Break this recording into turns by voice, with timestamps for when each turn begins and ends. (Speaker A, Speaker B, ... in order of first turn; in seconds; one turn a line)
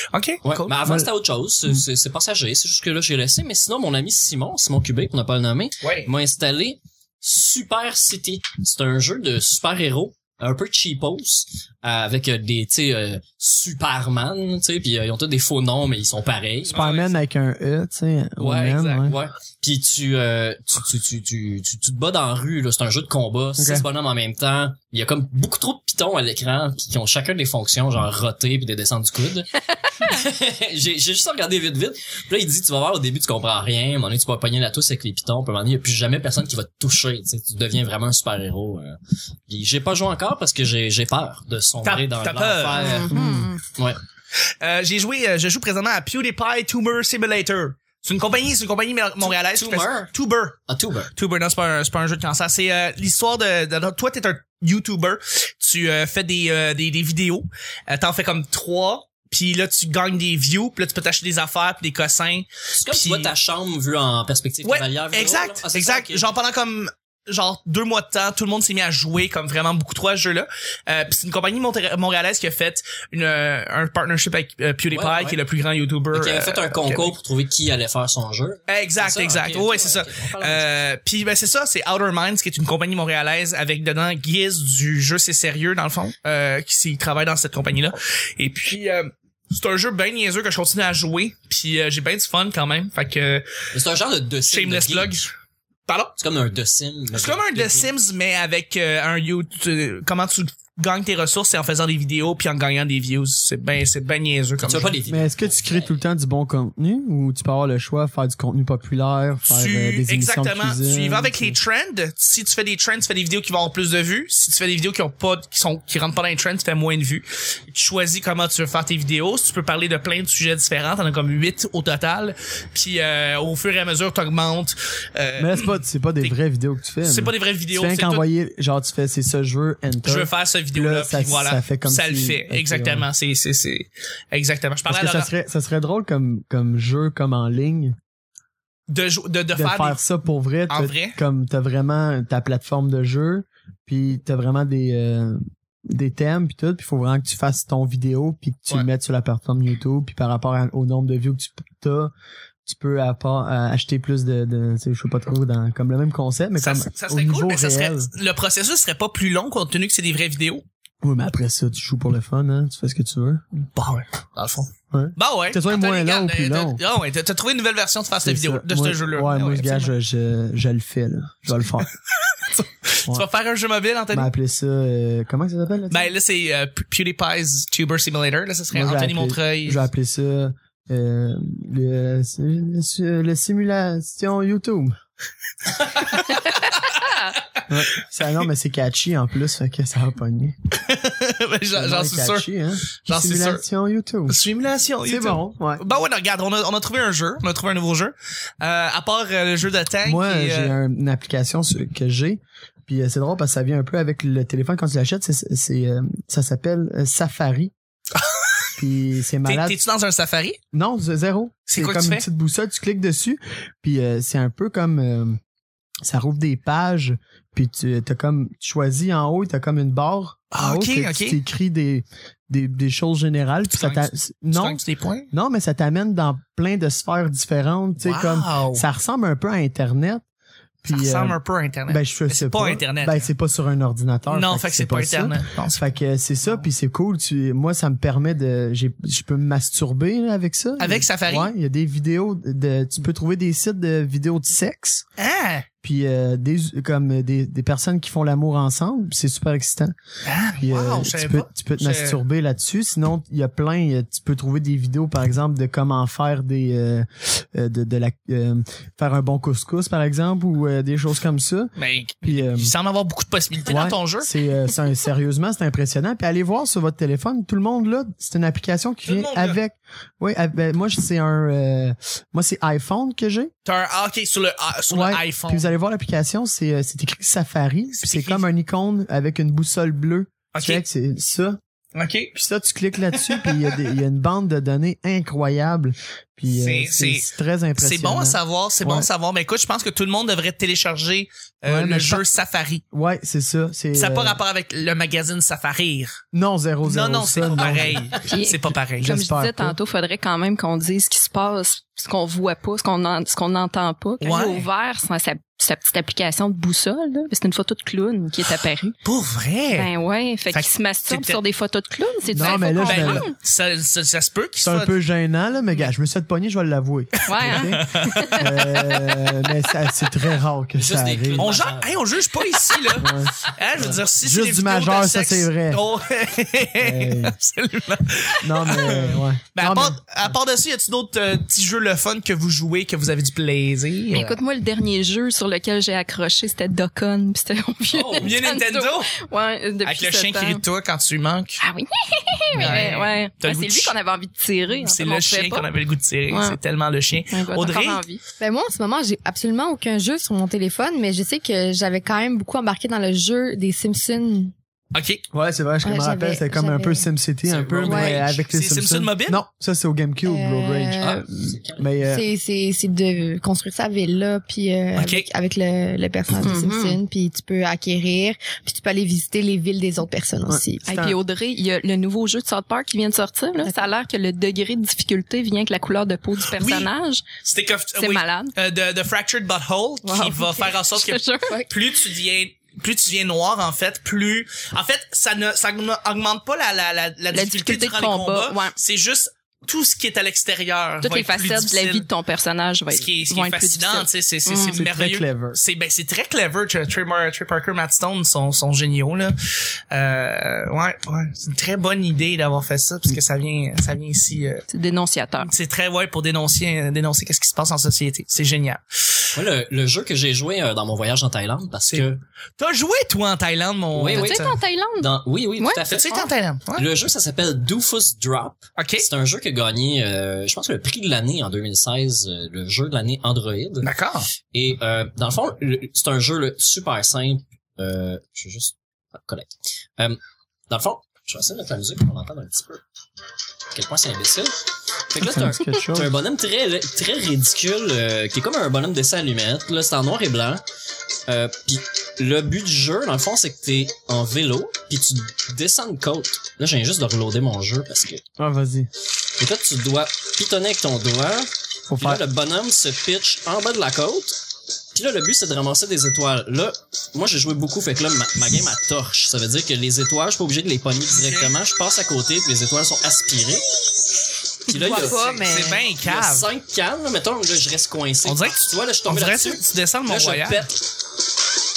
Speaker A: 0.1-0.7
Speaker B: 0.4-16.8
Speaker C: 0.8-1.1
Speaker A: 5.8-6.1
Speaker A: 16.7-17.2
Speaker C: 16.7-19.1
Speaker A: 18.4-19.1
Speaker B: 18.8-44.0
Speaker C: 23.6-23.9
Speaker A: 41.8-43.0
Speaker D: 42.8-43.6
Speaker C: 43.2-43.5
Speaker A: 44.6-50.6
Speaker B: 49.2-50.1
Speaker B: 50.7-51.1
Speaker A: 51.1-63.3
Speaker B: 62.7-66.3
Speaker A: 64.6-77.2
Speaker B: 74.9-75.4
Speaker B: 76.1-80.7
Speaker A: 78.7-93.5
Speaker B: 93.7-95.2
Speaker A: 94.5-95.3
Speaker A: 95.9-96.1
Speaker B: 96.2-97.9
Speaker A: 97.1-105.0
Speaker B: 104.6-106.0
Speaker C: 105.1-111.6
Speaker A: 109.5-126.4
Speaker C: 125.4-133.1
Speaker A: 127.0-128.2
Speaker A: 130.0-135.3
Speaker C: 134.9-138.0
Speaker A: 138.9-140.0
Speaker C: 139.5-152.1
Speaker A: 140.7-141.2
Speaker C: 152.7-158.1
Speaker A: 156.6-160.6
Speaker C: 161.0-163.4
Speaker A: 163.6-169.9
Speaker C: 164.9-166.8
Speaker C: 168.2-171.9
Speaker A: 172.2-174.3
Speaker C: 174.1-176.1
Speaker A: 175.9-179.8
Speaker C: 178.7-184.9
Speaker A: 185.7-187.6
Speaker C: 187.7-190.6
Speaker A: 190.7-192.5
Speaker C: 191.7-194.4
Speaker A: 193.1-193.6
Speaker A: 194.3-200.8
Speaker C: 195.1-195.8
Speaker C: 200.0-207.7
Speaker A: 208.2-208.7
Speaker C: 208.8-209.8
Speaker A: 209.4-210.6
Speaker C: 210.7-215.4
Speaker A: 211.7-212.2
Speaker C: 216.1-224.8
Speaker A: 220.5-221.4
Speaker A: 223.7-225.3
Speaker C: 225.3-230.2
Speaker A: 228.0-228.8
Speaker C: 230.8-245.1
Speaker A: 230.9-233.3
Speaker A: 234.3-235.8
Speaker A: 240.8-241.5
Speaker A: 245.2-245.7
Speaker C: 245.8-249.9
Speaker A: 250.3-252.2
Speaker C: 250.6-262.7
Speaker A: 261.8-264.3
Speaker C: 263.7-273.5
Speaker A: 269.1-269.6
Speaker A: 273.6-275.7
Speaker C: 274.9-281.6
Speaker A: 278.0-278.4
Speaker A: 280.5-280.8
Speaker A: 281.9-282.3
Speaker C: 282.3-289.1
Speaker A: 283.2-283.8
Speaker A: 286.5-287.3
Speaker A: 287.8-292.8
Speaker C: 291.7-292.2
Speaker C: 292.9-294.4
Speaker A: 293.9-296.2
Speaker C: 296.3-298.1
Speaker A: 296.8-299.1
Speaker D: 298.3-308.9
Speaker C: 299.0-299.8
Speaker A: 304.2-304.7
Speaker A: 309.1-309.9
Speaker D: 309.7-313.3
Speaker A: 310.5-311.4
Speaker C: 312.3-313.3
Speaker A: 312.4-315.0
Speaker C: 314.6-321.5
Speaker D: 317.3-318.5
Speaker A: 317.5-319.4
Speaker B: 320.8-322.0
Speaker A: 321.4-334.4
Speaker C: 323.0-325.8
Speaker C: 326.8-327.3
Speaker C: 328.4-330.0
Speaker D: 334.1-340.6
Speaker B: 337.9-338.4
Speaker A: 338.2-339.2
Speaker A: 339.8-341.6
Speaker D: 341.6-345.7
Speaker A: 342.6-343.9
Speaker A: 344.7-348.0
Speaker D: 346.3-346.6
Speaker D: 347.3-348.2
Speaker E: 348.4-354.5
Speaker A: 354.9-355.2
Speaker C: 355.3-362.2
Speaker E: 355.8-357.1
Speaker B: 357.5-358.2
Speaker A: 357.7-359.4
Speaker E: 357.8-358.2
Speaker E: 360.2-361.2
Speaker B: 361.0-361.9
Speaker E: 362.1-370.9
Speaker A: 365.0-365.3
Speaker D: 366.4-367.0
Speaker C: 370.5-371.2
Speaker D: 370.9-377.3
Speaker E: 373.6-373.9
Speaker A: 376.5-376.9
Speaker A: 377.4-392.1
Speaker D: 378.0-378.5
Speaker D: 380.1-381.6
Speaker E: 380.2-380.6
Speaker D: 387.3-388.8
Speaker D: 391.0-394.8
Speaker A: 392.9-399.4
Speaker C: 394.7-395.6
Speaker A: 399.9-404.6
Speaker D: 404.7-405.5
Speaker A: 405.4-409.3
Speaker B: 409.3-412.2
Speaker A: 411.9-414.5
Speaker B: 413.9-416.1
Speaker D: 414.1-416.2
Speaker A: 415.9-416.9
Speaker B: 416.7-423.9
Speaker A: 418.8-419.1
Speaker A: 423.8-424.3
Speaker B: 424.5-430.2
Speaker B: 430.7-432.8
Speaker B: 433.7-440.6
Speaker C: 435.2-436.1
Speaker B: 441.3-448.2
Speaker C: 448.4-448.9
Speaker B: 449.4-464.1
Speaker C: 451.9-452.2
Speaker A: 461.1-461.6
Speaker B: 464.6-465.4
Speaker E: 464.7-465.9
Speaker A: 465.1-466.5
Speaker B: 466.0-470.8
Speaker A: 468.2-470.7